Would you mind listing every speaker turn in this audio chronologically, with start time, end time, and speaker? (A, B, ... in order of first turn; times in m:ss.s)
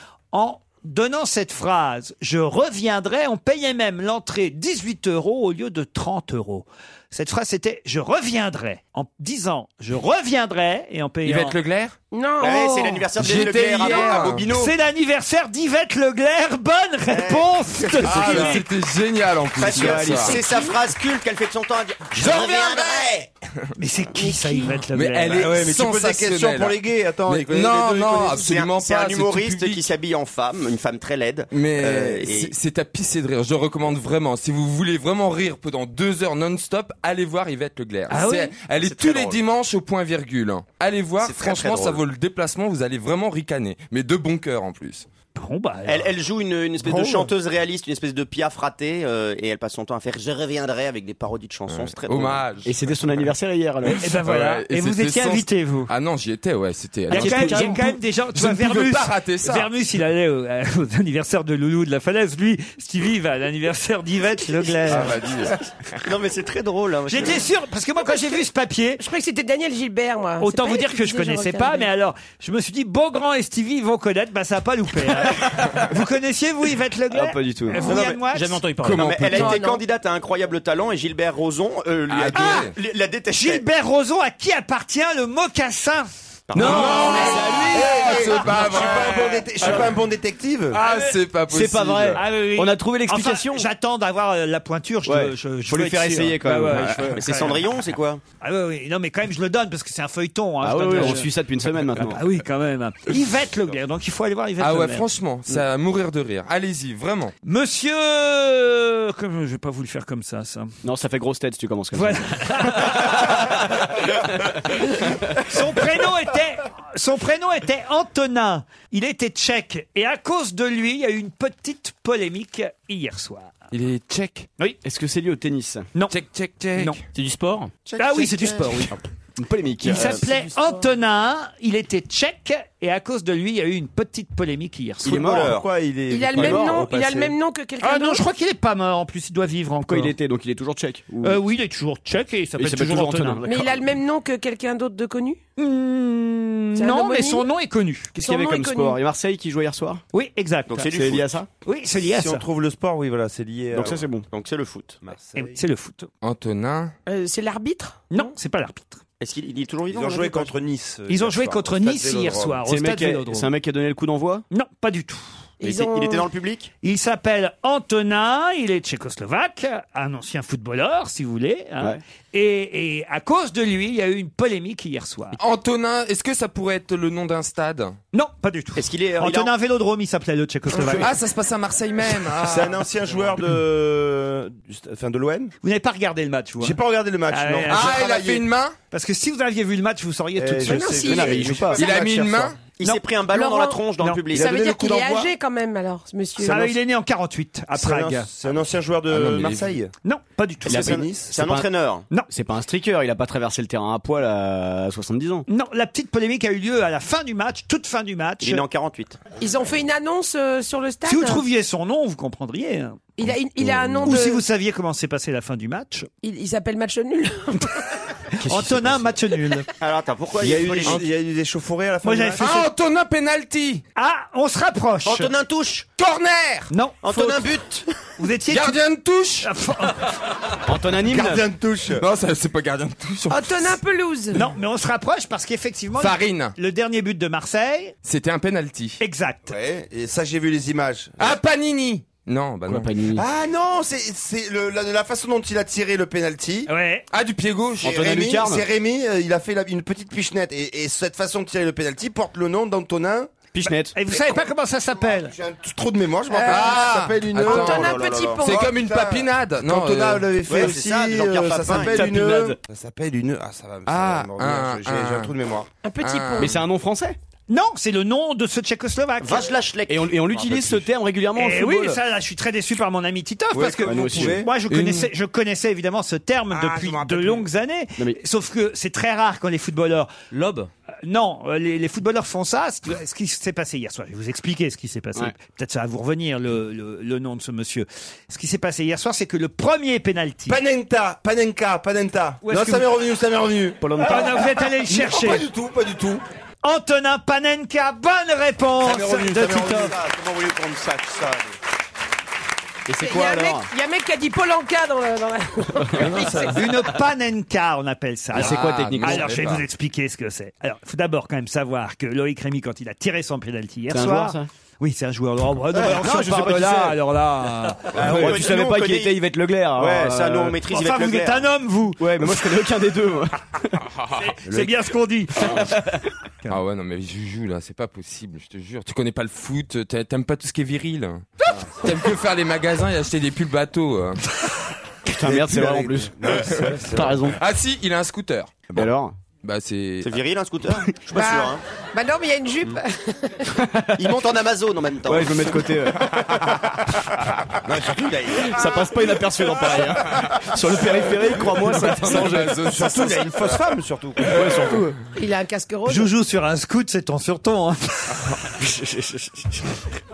0:00.3-0:11.6 A
0:11.2-0:12.0 B
0:12.1-0:12.7 C
0:12.4-0:13.1 A
0:12.4-0:14.7 D
0:13.1-0:14.4 B
0:13.7-0:18.6 A
0:17.1-0:18.6 D
0:18.0-0:20.4 B
0:19.6-0:23.3 D
0:19.7-0:20.4 E
0:20.4-0:20.8 C
0:22.2-0:23.1 B
0:23.8-0:25.5 A
0:24.2-0:24.8 C
0:24.9-0:29.8 B
0:25.3-0:28.5 F
0:28.3-0:32.5 D
0:31.5-0:45.0 B
0:38.1-0:38.5 A
0:38.8-0:39.4 D
0:41.2-0:42.0 D
0:45.4-0:46.1 A
0:45.8-0:52.5 D
0:46.9-0:47.1 A
0:51.7-0:52.9 B
0:52.6-0:54.1 E
0:53.9-0:59.7 B
0:54.0-0:55.9 A
0:57.1-0:58.0 E
0:57.1-1:05.2 A
1:04.8-1:05.5 B
1:06.0-1:07.5 D
1:07.1-1:09.0 A
1:09.0-1:11.9 C
1:10.4-1:18.6 A
1:17.1-1:18.0 E
1:18.0-1:19.1 G
1:18.8-1:19.5 B
1:18.9-1:23.6 D
1:19.3-1:19.8 C
1:22.1-1:22.7 B
1:22.3-1:22.7 A
1:23.3-1:26.1 A
1:26.5-1:27.7 D
1:26.6-1:28.5 E
1:26.6-1:29.9 B
1:26.7-1:27.4 A
1:26.9-1:30.8 F
1:30.7-1:32.2 B
1:30.7-1:31.2 A
1:31.5-1:33.7 E
1:32.1-1:37.6 A
1:35.0-1:37.6 E
1:37.1-1:38.2 D
1:38.4-1:41.3 A
1:40.6-1:42.2 E
1:42.0-1:45.0 A
1:44.6-1:47.3 B
1:47.4-1:50.8 A
1:50.8-1:53.6 E
1:51.9-1:53.6 A
1:54.4-1:55.4 E
1:54.7-2:03.5 A
2:03.7-2:04.5 B
2:04.8-2:05.9 E
2:06.1-2:07.0 B
2:06.7-2:07.0 A
2:07.1-2:07.7 G
2:07.9-2:08.5 D
2:08.0-2:09.0 A
2:08.9-2:10.5 E
2:09.8-2:15.1 A
2:15.0-2:15.5 E
2:15.0-2:15.7 D
2:15.2-2:17.3 F
2:16.1-2:18.2 C
2:16.3-2:16.8 E
2:17.8-2:20.1 A
2:19.8-2:21.4 E
2:21.2-2:23.4 A
2:22.6-2:23.9 E
2:23.4-2:25.4 C
2:25.6-2:28.1 A
2:26.8-2:27.5 C
2:28.1-2:30.0 E
2:28.2-2:29.0 C
2:30.1-2:30.8 A
2:30.7-2:31.3 D
2:30.8-2:31.5 E
2:31.6-2:32.4 A
2:32.0-2:34.0 F
2:33.7-2:34.2 E
2:33.8-2:35.0 D
2:35.0-2:35.6 F
2:35.4-2:36.1 A
2:36.2-2:36.9 B
2:37.1-2:38.3 C
2:38.1-2:39.0 A
2:39.2-2:40.5 D
2:39.9-2:42.6 F
2:41.1-2:43.5 A
2:42.6-2:44.4 E
2:44.5-2:45.3 A
2:45.6-2:46.3 C
2:45.6-2:46.7 D
2:46.8-2:55.4 A
2:55.3-2:58.0 B
2:58.1-3:01.1 A
2:58.8-2:59.5 D
3:00.8-3:01.1 E
3:01.0-3:03.4 B
3:02.4-3:05.5 F
3:05.6-3:06.8 A
3:06.6-3:08.5 F
3:07.3-3:08.0 A
3:07.7-3:08.8 B
3:08.9-3:11.0 A
3:10.4-3:12.5 F
3:10.6-3:11.5 C
3:11.0-3:12.4 E
3:11.7-3:12.6 B
3:12.7-3:14.6 D
3:13.3-3:16.8 C
3:14.3-3:15.3 F
3:16.4-3:18.3 A
3:17.7-3:19.9 F
3:19.1-3:19.7 B
3:20.0-3:21.0 A
3:20.7-3:25.4 E
3:20.7-3:22.1 D
3:20.7-3:21.3 F
3:25.5-3:28.6 A
3:28.4-3:29.2 D
3:29.4-3:31.4 C
3:31.0-3:33.1 A
3:33.2-3:34.4 C
3:33.6-3:34.1 E
3:34.0-3:36.1 A
3:36.2-3:37.9 C
3:38.4-3:39.2 E
3:38.4-3:39.7 A
3:39.8-3:41.0 D
3:40.4-3:42.7 F
3:42.0-3:42.6 A
3:42.4-3:43.8 B
3:44.0-3:45.3 A
3:45.0-3:45.9 D
3:46.0-3:46.7 B
3:46.7-3:47.5 A
3:47.0-3:48.1 D
3:48.2-3:48.8 A
3:48.5-3:49.5 B
3:49.4-3:50.1 A
3:50.6-3:51.4 E
3:51.0-3:52.0 F
3:51.9-3:53.8 B
3:53.3-3:54.4 C
3:54.3-3:57.9 A
3:56.0-3:56.5 B
3:58.0-3:59.0 B
3:59.0-3:59.6 A
3:59.5-4:01.4 F
4:01.2-4:02.9 B
4:02.6-4:03.2 E
4:03.1-4:06.7 F
4:06.7-4:07.0 A
4:07.1-4:08.0 B
4:07.8-4:08.6 E
4:07.8-4:13.3 F
4:13.5-4:14.0 E
4:13.6-4:15.3 A
4:14.9-4:25.7 F
4:16.4-4:20.4 B
4:17.4-4:18.6 C
4:17.9-4:18.3 D
4:20.5-4:22.4 D
4:21.8-4:22.6 E
4:23.8-4:25.3 B
4:25.8-4:26.6 C
4:26.0-4:26.5 B
4:26.4-4:27.2 E
4:27.5-4:29.5 A
4:29.2-4:30.7 D
4:29.9-4:32.0 E
4:31.3-4:40.1 A
4:33.5-4:34.5 F
4:33.8-4:34.5 E
4:34.7-4:35.1 B
4:36.5-4:37.5 B
4:40.3-4:40.7 G
4:41.0-4:50.6 A
4:50.5-4:56.2 F
4:52.4-4:52.9 A
4:53.8-4:54.5 E
4:54.0-4:55.4 A
4:56.6-4:59.9 A
4:58.8-4:59.9 F
4:59.3-5:01.5 D
5:02.9-5:03.7 E
5:03.0-5:06.5 C
5:05.8-5:06.2 E
5:06.0-5:06.7 B
5:06.4-5:18.3 A
5:08.3-5:09.5 E
5:08.3-5:09.6 B
5:13.9-5:14.5 E
5:15.7-5:17.0 E
5:17.9-5:20.6 E
5:17.9-5:18.6 F
5:17.9-5:19.2 D
5:19.7-5:21.5 D
5:20.7-5:22.0 A
5:22.0-5:23.8 E
5:24.0-5:24.7 B
5:24.1-5:26.6 A
5:26.5-5:34.2 B
5:35.0-5:37.4 E
5:35.2-5:37.2 F
5:36.3-5:40.2 B
5:38.7-5:39.2 E
5:40.0-5:41.6 D
5:41.1-5:43.5 C
5:43.5-5:44.0 E
5:44.0-5:45.7 D
5:45.0-5:46.5 E
5:47.6-5:48.6 D
5:48.5-5:52.7 E
5:51.5-5:53.3 B
5:52.1-5:54.6 F
5:54.2-5:55.0 E
5:55.1-5:56.1 C
5:55.9-5:58.4 A
5:58.5-5:59.8 E